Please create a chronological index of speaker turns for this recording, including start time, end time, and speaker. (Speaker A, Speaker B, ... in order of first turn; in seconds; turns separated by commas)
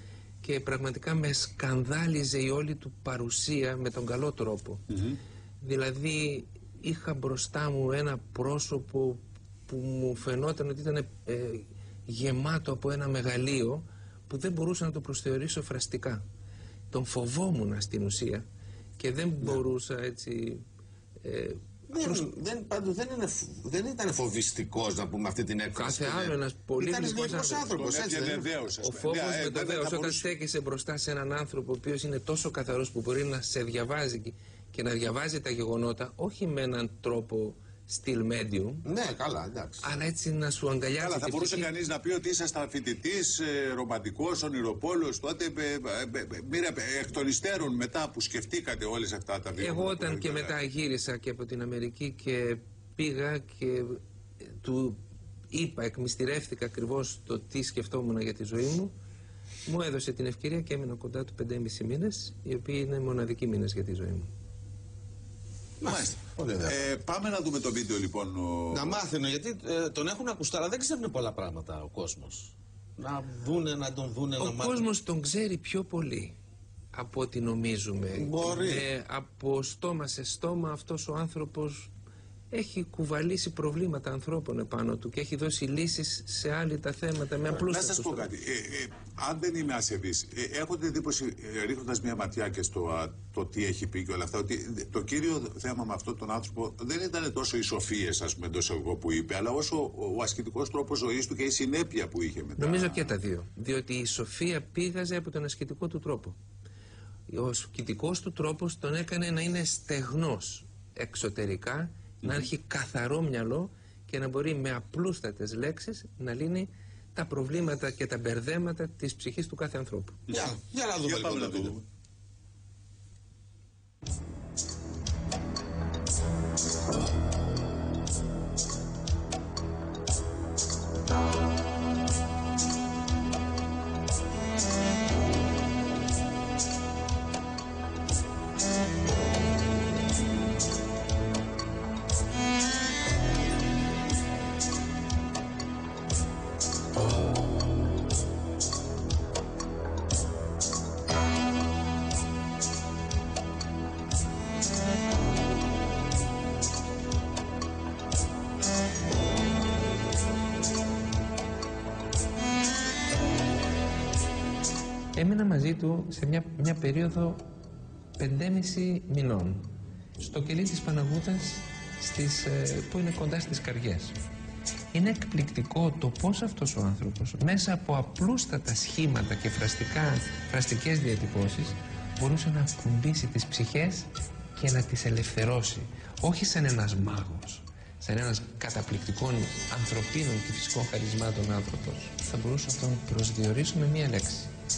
Speaker A: 0.4-4.8, Speaker B: 4.9-5.2, Speaker A: 5.6-16.2, Speaker A: 16.9-18.4, Speaker A: 19.0-20.6, Speaker A: 21.2-22.2, Speaker C: 21.9-28.5, Speaker A: 25.7-27.6, Speaker B: 27.7-30.3, Speaker A: 28.8-38.9, Speaker C: 38.8-39.9, Speaker A: 39.8-41.7, Speaker B: 41.0-50.5, Speaker A: 49.6-55.0, Speaker A: 55.5-58.9, Speaker A: 59.6-64.3, Speaker C: 65.8-66.8, Speaker B: 65.8-69.0, Speaker C: 68.7-74.9, Speaker A: 74.4-76.3, Speaker A: 76.9-81.9, Speaker C: 78.1-78.9, Speaker A: 82.5-88.3, Speaker B: 87.5-103.1, Speaker A: 102.6-106.3, Speaker A: 107.3-120.2, Speaker B: 120.3-121.8, Speaker C: 120.3-121.8, Speaker A: 165.1-167.5, Speaker A: 168.2-174.2, Speaker A: 174.9-194.5